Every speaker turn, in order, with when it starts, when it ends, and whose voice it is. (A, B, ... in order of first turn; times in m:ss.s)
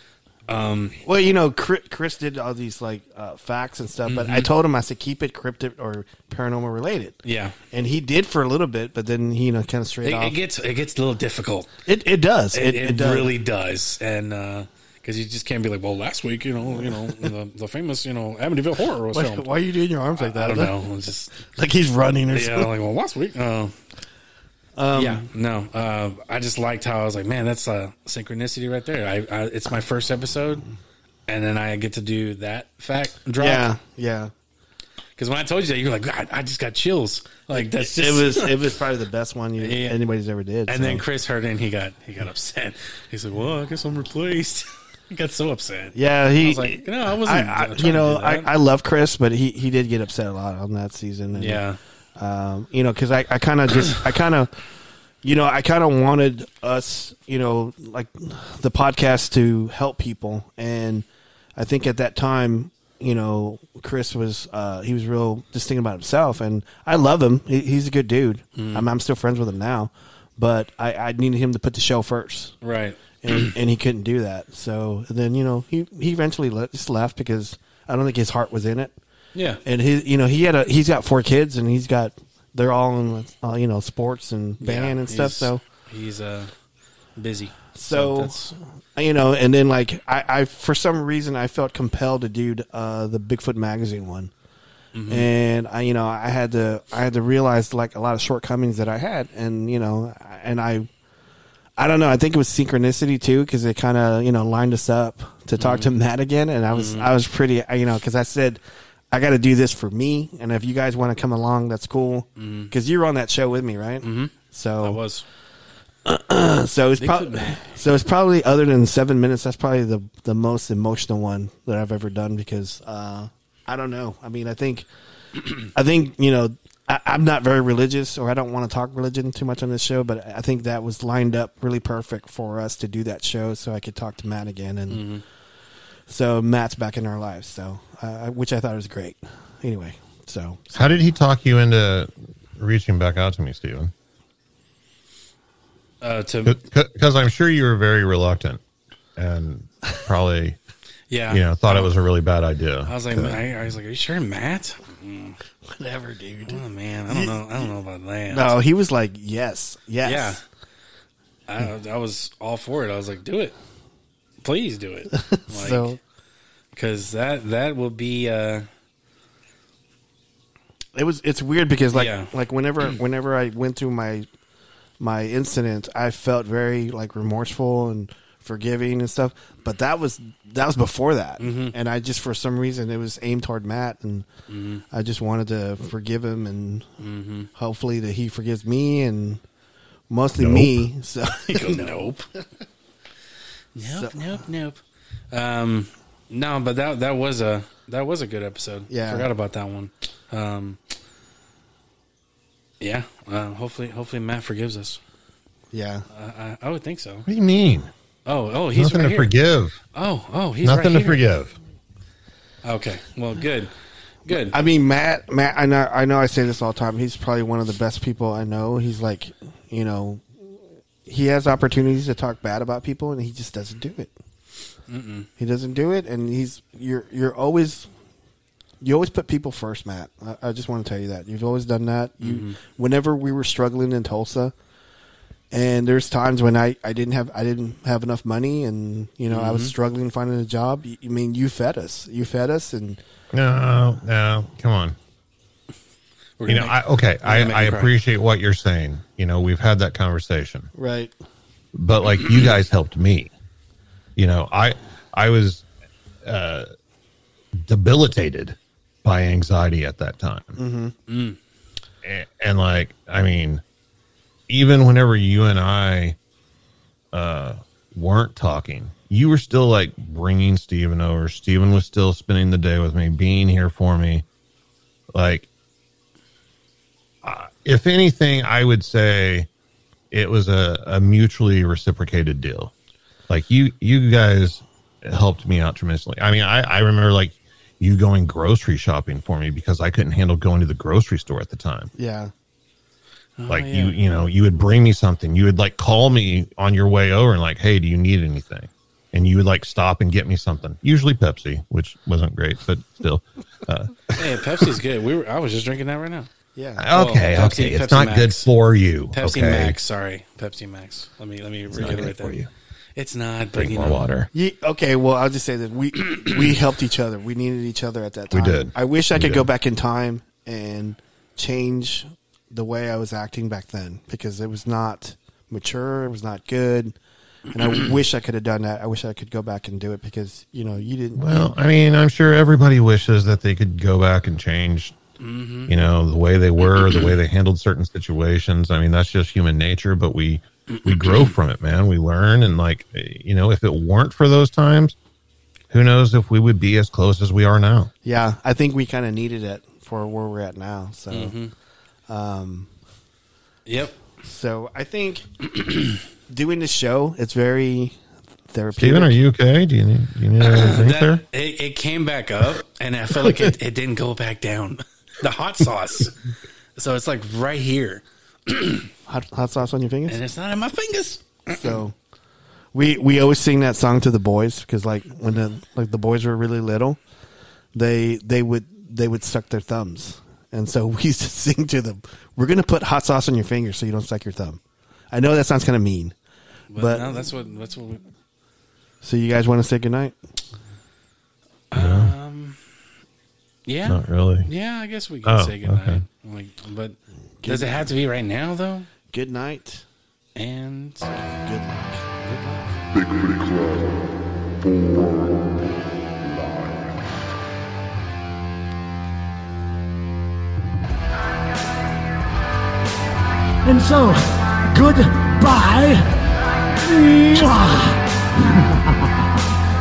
0:00.5-0:01.0 A
0:01.0-0:07.2 B
0:04.0-0:04.5 A
0:07.2-0:07.6 A
0:07.7-0:10.4 B
0:10.0-0:11.7 A
0:11.8-0:13.3 B
0:12.5-0:19.5 A
0:19.1-0:20.8 B
0:20.2-0:21.3 A
0:21.4-0:22.7 B
0:22.3-0:23.7 A
0:24.8-0:25.3 B
0:24.9-0:30.6 A
0:31.3-0:33.7 A
0:33.4-0:34.3 B
0:35.2-0:38.6 A
0:37.5-0:41.0 B
0:39.6-0:40.0 A
0:40.7-0:48.5 A
0:45.9-0:51.6 B
0:51.3-0:51.8 A
0:52.2-0:54.5 B
0:55.2-1:01.0 B
1:01.6-1:12.6 B
1:08.6-1:08.8 A
1:12.6-1:13.6 A
1:13.2-1:18.9 B
1:19.3-1:19.6 A
1:19.6-1:25.6 B
1:24.6-1:26.5 A
1:27.2-1:28.5 A
1:27.7-1:34.3 B
1:34.9-1:35.3 A
1:35.1-1:40.9 B
1:41.8-1:48.6 B
1:45.6-1:45.9 A
1:46.7-1:47.1 A
1:49.1-1:55.0 B
1:52.4-1:52.7 A
1:54.0-1:55.2 A
1:56.0-2:15.2 B
1:57.0-1:57.8 A
2:14.9-2:15.2 A
2:16.1-2:20.9 B
2:20.7-2:23.9 C
2:26.0-2:26.6 A
2:26.4-2:28.6 C
2:29.2-2:30.6 C
2:31.1-2:31.8 A
2:31.3-2:33.4 C
2:32.8-2:35.4 A
2:35.7-2:37.6 B
2:36.5-2:38.6 A
2:38.3-2:40.4 B
2:40.0-2:40.4 A
2:41.5-2:43.5 A
2:44.4-2:46.0 A
2:45.1-2:46.0 B
2:46.7-2:48.7 A
2:50.9-2:54.2 B
2:51.9-2:52.3 A
2:55.0-3:04.3 B
3:01.4-3:01.7 A
3:04.5-3:04.8 A
3:04.9-3:06.9 B
3:07.0-3:07.5 A
3:07.5-3:09.4 B
3:10.1-3:11.9 B
3:10.4-3:10.8 C
3:11.4-3:12.3 A
3:13.8-3:14.8 A
3:13.8-3:14.4 B
3:15.3-3:20.8 A
3:18.9-3:19.3 B
3:22.8-3:25.0 A
3:25.7-3:26.1 B
3:26.1-3:27.3 A
3:27.2-3:27.9 C
3:28.2-3:29.3 A
3:28.7-3:29.8 C
3:29.9-3:31.2 A
3:30.6-3:31.5 C
3:32.6-3:33.7 A
3:34.3-3:34.6 A
3:34.4-3:40.5 B
3:41.0-3:44.1 B
3:44.9-3:45.3 A
3:45.4-3:47.9 B
3:48.8-3:54.5 B
3:52.2-3:52.6 A
3:55.5-4:03.0 B
3:59.3-3:59.7 A
4:03.3-4:05.0 C
4:06.4-4:07.9 A
4:06.5-4:10.7 C
4:10.8-4:11.1 B
4:11.7-4:13.3 C
4:14.2-4:15.6 C
4:16.2-4:16.7 C
4:17.6-4:20.6 C
4:20.6-4:21.0 B
4:21.1-4:21.4 A
4:22.0-4:23.6 C
4:24.5-4:26.2 C
4:27.1-4:34.2 C
4:35.1-4:35.5 C
4:37.2-4:39.5 C
4:40.1-4:42.7 C
4:43.3-4:51.9 C
4:52.0-4:52.3 B
4:53.4-4:54.0 A
4:53.5-5:04.6 C
5:04.1-5:06.3 A
5:06.6-5:06.8 B
5:06.8-5:09.8 C
5:06.9-5:08.5 A
5:09.1-5:12.4 A
5:11.7-5:12.5 C
5:13.0-5:14.0 A
5:13.6-5:14.3 C
5:14.3-5:26.9 B
5:16.1-5:16.4 A
5:18.3-5:19.4 C
5:27.5-5:31.5 B
5:27.6-5:28.0 A
5:31.2-5:35.0 C
5:35.2-5:35.7 A
5:35.7-5:45.0 C
5:36.6-5:37.1 A
5:40.7-5:41.3 A
5:45.7-5:47.9 C
5:48.0-5:51.4 B
5:51.1-5:51.5 A
5:52.1-5:52.7 B
5:53.6-5:54.0 A
5:54.2-5:55.3 B
5:56.3-5:58.0 B
5:58.5-5:59.2 B
5:58.7-6:01.2 C
6:00.4-6:06.1 A
6:03.2-6:03.5 C
6:06.8-6:08.9 A
6:09.1-6:10.2 B
6:10.1-6:11.8 A
6:11.5-6:11.9 B
6:12.7-6:17.0 B
6:17.7-6:24.6 B
6:25.1-6:26.1 B
6:26.7-6:28.0 A
6:26.8-6:27.1 B
6:29.0-6:30.1 B
6:31.7-6:32.6 A
6:31.7-6:32.1 C
6:33.6-6:38.9 A
6:33.8-6:34.5 C
6:35.2-6:36.0 C
6:37.4-6:37.9 B
6:39.1-6:39.8 B
6:40.4-6:41.1 A
6:41.2-6:42.0 B
6:42.2-6:42.8 A
6:42.9-6:45.6 D
6:46.2-6:47.2 D
6:53.6-6:59.3 E